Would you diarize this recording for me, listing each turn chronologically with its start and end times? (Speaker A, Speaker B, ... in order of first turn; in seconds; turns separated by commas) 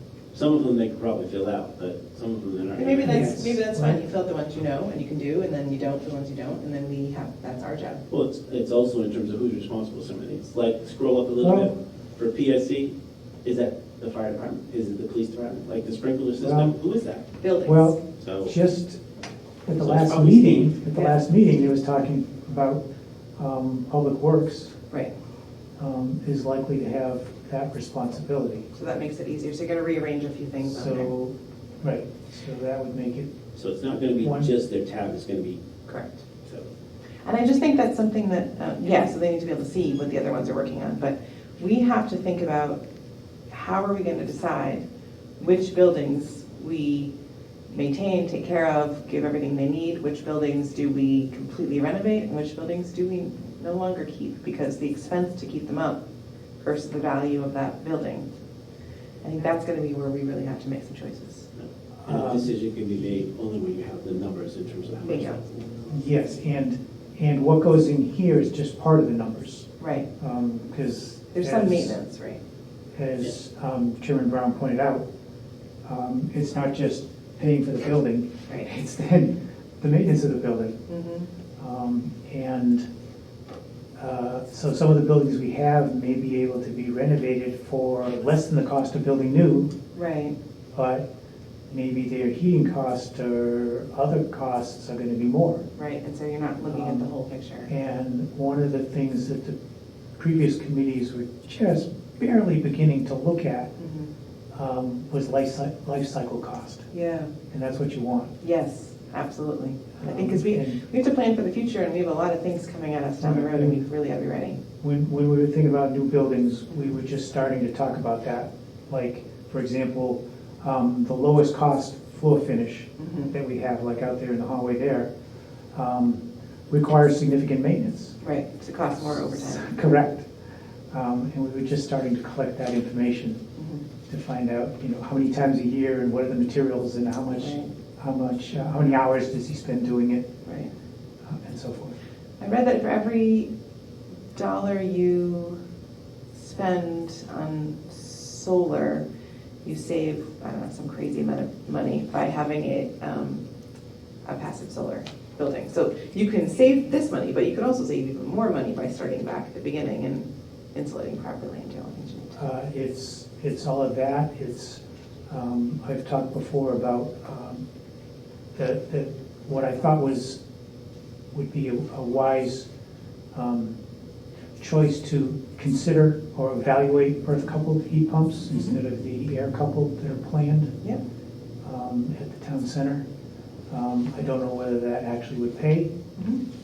Speaker A: 0.3-3.6, Speaker B: 2.8-8.0, Speaker C: 3.0-4.0, Speaker A: 8.1-17.3, Speaker C: 11.4-11.7, Speaker C: 16.4-16.7, Speaker B: 17.4-18.0, Speaker C: 17.6-19.0, Speaker A: 18.1-18.5, Speaker C: 19.6-22.8, Speaker A: 19.8-20.8, Speaker B: 20.9-21.3, Speaker C: 23.4-24.8, Speaker C: 25.8-28.7, Speaker B: 28.7-31.1, Speaker C: 30.6-33.3, Speaker A: 33.5-35.6, Speaker C: 34.1-34.5, Speaker B: 35.9-36.2, Speaker B: 37.2-42.8, Speaker B: 43.5-44.8, Speaker B: 45.4-47.1, Speaker B: 47.7-56.0, Speaker B: 56.6-58.3, Speaker B: 59.2-61.5, Speaker A: 61.6-65.7, Speaker C: 62.0-62.5, Speaker B: 65.0-65.4, Speaker C: 65.9-69.7, Speaker B: 69.8-70.1, Speaker C: 70.2-72.0, Speaker B: 71.3-72.4, Speaker C: 72.9-75.0, Speaker C: 75.8-80.8, Speaker B: 80.9-81.3, Speaker C: 81.6-82.8, Speaker C: 84.0-89.7, Speaker B: 89.9-90.3, Speaker C: 90.7-91.0, Speaker C: 91.7-95.6, Speaker B: 95.7-97.7, Speaker C: 96.7-97.1, Speaker C: 97.7-99.5, Speaker C: 100.2-103.7, Speaker B: 103.8-104.1, Speaker C: 104.5-106.8, Speaker B: 106.9-107.3, Speaker C: 107.5-108.3, Speaker B: 108.4-114.6, Speaker C: 110.0-110.8, Speaker C: 113.2-113.8, Speaker C: 114.8-125.1, Speaker B: 123.0-123.3, Speaker C: 125.7-128.1, Speaker B: 128.2-129.7, Speaker C: 129.0-130.3, Speaker C: 130.9-133.4, Speaker B: 133.6-133.8, Speaker C: 134.1-140.3, Speaker B: 137.3-137.7, Speaker B: 140.4-140.7, Speaker C: 141.2-141.9, Speaker B: 142.4-143.5, Speaker B: 144.3-145.6, Speaker B: 146.3-149.0, Speaker B: 149.6-153.4, Speaker B: 154.2-162.4, Speaker C: 162.3-167.6, Speaker C: 168.5-170.4, Speaker C: 171.3-172.7, Speaker C: 173.3-173.8, Speaker C: 174.6-180.7, Speaker B: 178.5-178.8, Speaker C: 181.6-183.0, Speaker C: 183.7-185.9, Speaker B: 186.2-186.4